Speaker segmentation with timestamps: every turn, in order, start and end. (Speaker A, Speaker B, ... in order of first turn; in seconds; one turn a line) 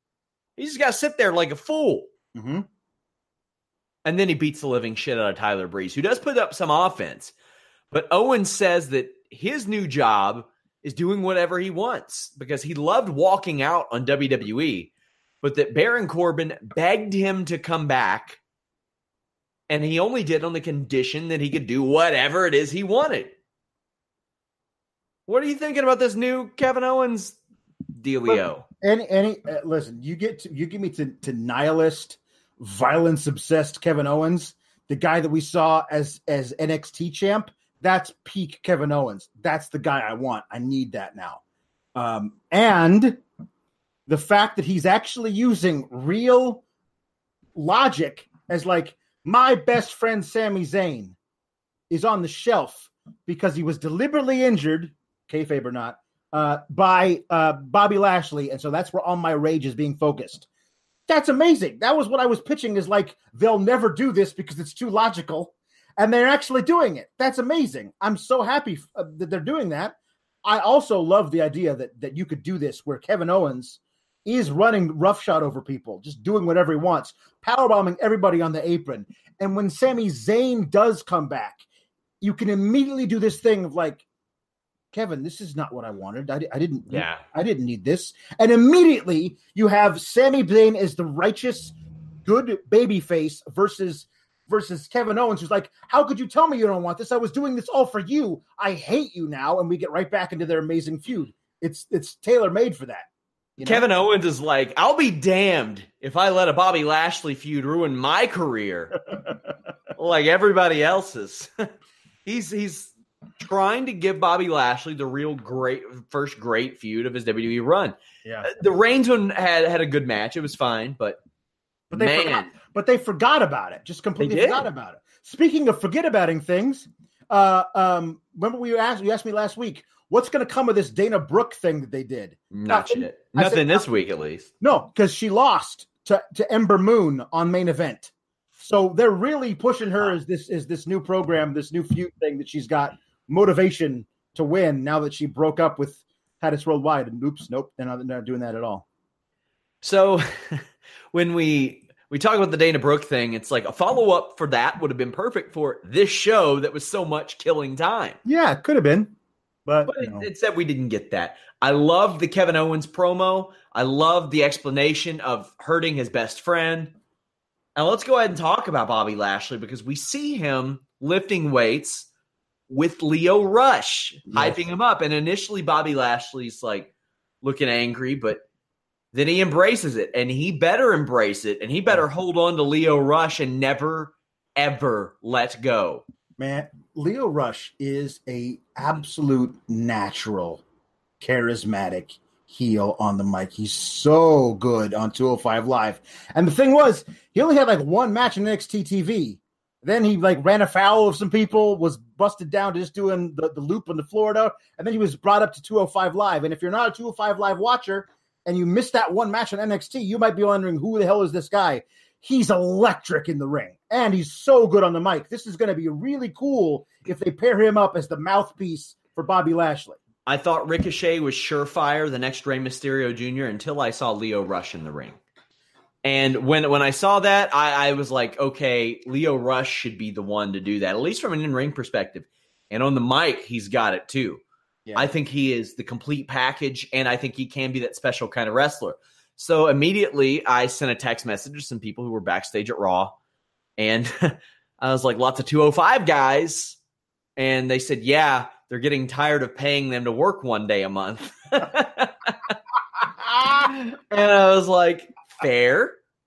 Speaker A: 0.6-2.1
Speaker B: 2.3-2.6
Speaker A: 4.0-7.3
Speaker A: 7.9-14.9
Speaker A: 15.4-18.4
Speaker A: 19.7-23.3
Speaker A: 25.3-27.4
Speaker A: 28.0-28.6
Speaker B: 28.3-41.4
Speaker B: 41.9-43.2
Speaker B: 44.1-46.6
Speaker B: 47.5-51.1
Speaker B: 51.9-60.5
Speaker B: 61.1-81.6
Speaker B: 82.2-84.0
Speaker B: 84.9-91.7
Speaker A: 86.9-87.2
Speaker B: 92.2-103.9
Speaker A: 103.6-109.0
Speaker A: 109.9-111.5
Speaker A: 112.2-121.2
Speaker B: 121.9-133.8
Speaker A: 121.9-122.5
Speaker A: 124.2-124.7
Speaker A: 132.5-134.5
Speaker B: 134.6-148.8
Speaker A: 149.8-158.2
Speaker B: 158.2-159.1
Speaker B: 159.7-160.3
Speaker A: 159.9-166.9
Speaker A: 167.8-172.1
Speaker A: 172.7-176.9
Speaker B: 174.3-174.6
Speaker A: 177.4-178.4
Speaker A: 179.1-186.0
Speaker B: 186.4-190.6
Speaker B: 191.2-220.0
Speaker A: 220.2-225.2
Speaker A: 226.0-234.4
Speaker A: 234.9-243.1
Speaker A: 243.8-246.8
Speaker A: 247.4-252.6
Speaker A: 253.6-256.0